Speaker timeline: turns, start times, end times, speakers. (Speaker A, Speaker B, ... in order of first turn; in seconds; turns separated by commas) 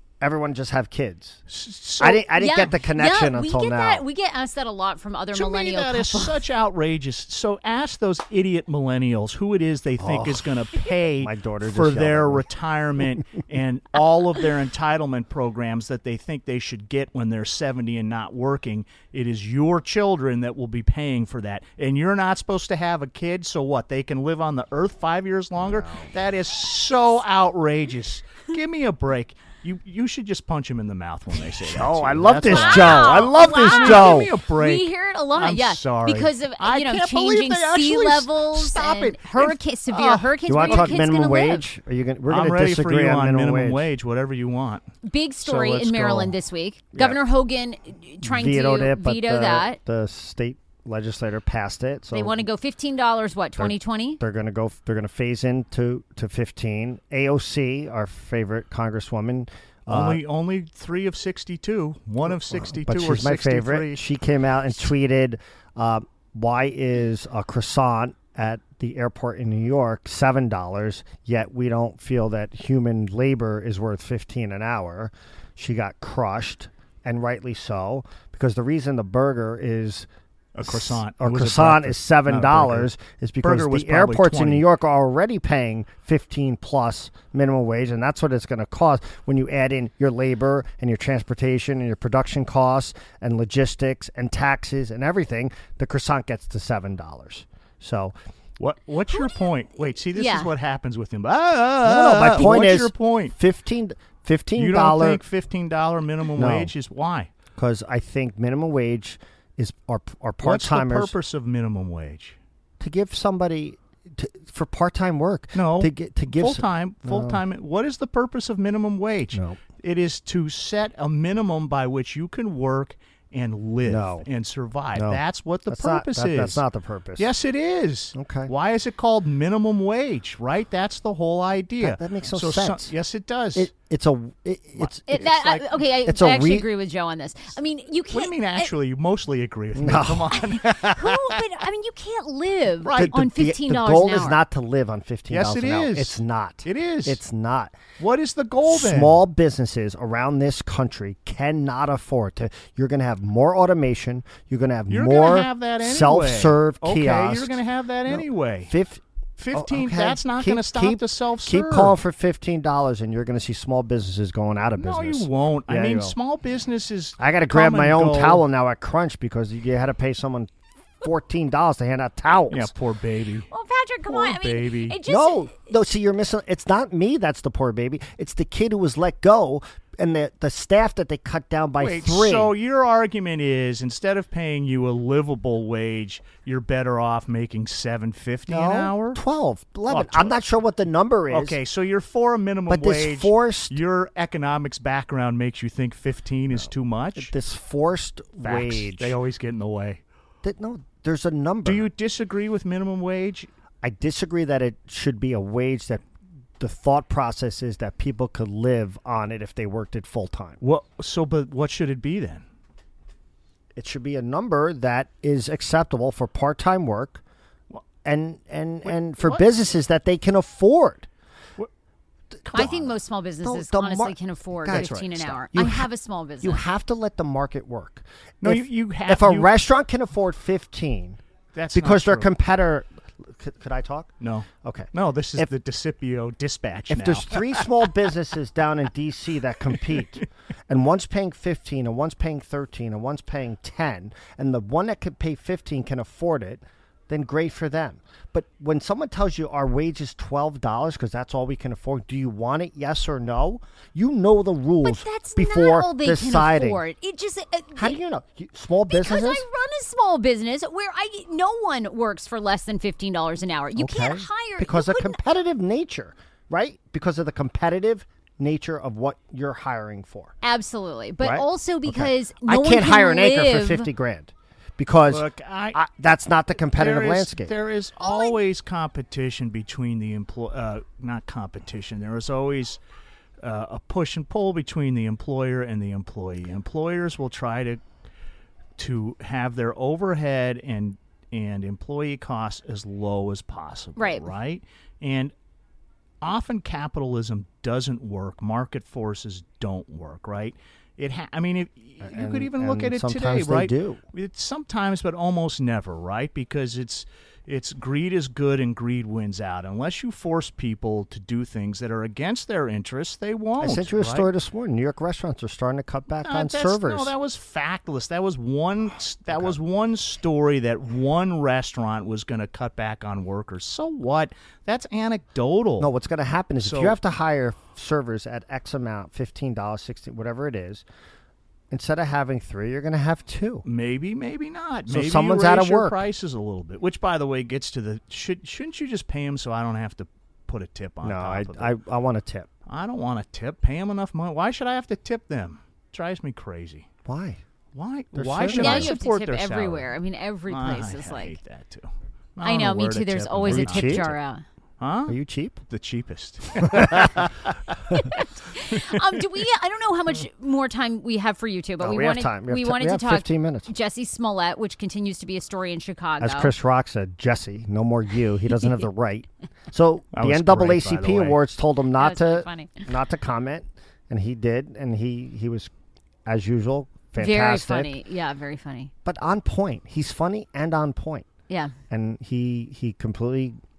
Speaker A: 0.2-1.4, Speaker B: 1.5-2.3, Speaker A: 2.0-4.0, Speaker C: 2.3-6.4, Speaker B: 5.3-41.0, Speaker A: 10.0-10.6, Speaker A: 11.2-12.5, Speaker A: 25.6-26.1, Speaker A: 31.6-34.3, Speaker C: 32.5-41.6, Speaker A: 40.5-43.9, Speaker B: 42.3-44.9, Speaker C: 45.0-49.8, Speaker B: 45.4-46.3, Speaker A: 48.2-52.5, Speaker C: 52.1-54.2, Speaker A: 53.6-60.2, Speaker B: 59.9-64.0, Speaker A: 62.3-80.1, Speaker B: 80.5-82.9, Speaker A: 80.6-98.2, Speaker B: 83.4-84.7, Speaker B: 98.6-103.3, Speaker C: 100.1-100.5, Speaker A: 101.8-105.2, Speaker B: 104.6-107.3, Speaker A: 106.4-106.7, Speaker A: 107.6-111.1, Speaker B: 110.4-112.4, Speaker A: 112.8-117.4, Speaker B: 115.5-126.6, Speaker A: 119.3-119.6, Speaker A: 123.9-124.3, Speaker A: 125.0-127.3, Speaker B: 127.2-133.7, Speaker A: 128.2-128.5, Speaker A: 131.8-132.9, Speaker A: 133.6-136.7, Speaker B: 134.8-135.3, Speaker C: 135.1-138.7, Speaker B: 138.1-141.0, Speaker A: 139.8-141.1, Speaker C: 140.3-144.4, Speaker B: 142.8-143.2, Speaker A: 142.9-147.8, Speaker B: 145.3-147.2, Speaker B: 148.0-149.2, Speaker A: 148.7-159.0, Speaker B: 154.9-158.7, Speaker B: 159.4-162.0, Speaker A: 159.5-166.2, Speaker B: 164.8-168.4, Speaker A: 167.2-172.7, Speaker B: 172.5-173.5, Speaker C: 173.5-175.5, Speaker B: 174.1-175.0, Speaker A: 175.1-182.5, Speaker B: 181.8-189.2, Speaker A: 188.5-191.6, Speaker B: 189.9-190.4, Speaker B: 191.3-197.3, Speaker A: 192.7-193.8, Speaker A: 197.2-199.2, Speaker B: 198.4-200.0, Speaker A: 200.4-201.9, Speaker B: 201.7-203.5, Speaker A: 203.8-206.0, Speaker A: 206.6-210.6, Speaker B: 210.6-212.4, Speaker A: 213.8-217.2, Speaker A: 218.0-221.1, Speaker B: 218.8-219.4, Speaker B: 222.5-222.8, Speaker A: 222.5-222.9, Speaker C: 222.5-226.6, Speaker A: 223.4-225.9, Speaker B: 224.7-225.1, Speaker A: 226.4-231.2, Speaker B: 228.4-229.5, Speaker B: 231.5-232.3, Speaker A: 231.7-235.5, Speaker B: 234.2-237.7, Speaker A: 236.9-256.8, Speaker C: 254.8-258.0, Speaker A: 257.8-259.4, Speaker C: 258.9-265.2, Speaker A: 263.8-270.4, Speaker C: 270.4-273.9, Speaker A: 271.2-277.5, Speaker B: 275.1-275.8, Speaker B: 276.8-282.8, Speaker C: 278.0-278.4, Speaker B: 283.4-287.8, Speaker B: 288.8-295.3, Speaker C: 294.0-294.3, Speaker B: 296.2-314.3, Speaker A: 302.0-304.0, Speaker A: 313.6-317.1, Speaker B: 316.2-325.9, Speaker A: 319.3-319.6, Speaker A: 325.8-330.9, Speaker B: 326.6-326.9, Speaker A: 331.7-333.6, Speaker B: 333.7-341.7, Speaker A: 334.9-336.0, Speaker A: 341.0-342.5, Speaker B: 342.7-346.9, Speaker A: 347.1-347.4, Speaker B: 347.7-349.9, Speaker A: 348.1-348.9, Speaker C: 348.5-351.4, Speaker B: 350.5-354.2, Speaker C: 352.4-354.4, Speaker A: 353.5-354.1, Speaker B: 354.8-355.2, Speaker A: 355.1-355.6, Speaker B: 355.7-357.8, Speaker A: 356.6-357.2, Speaker C: 357.9-366.5, Speaker A: 361.8-363.7, Speaker A: 366.2-375.7, Speaker B: 370.1-371.4, Speaker C: 372.0-372.9, Speaker A: 376.3-377.9, Speaker C: 377.2-378.9, Speaker A: 379.1-381.3, Speaker A: 381.9-383.6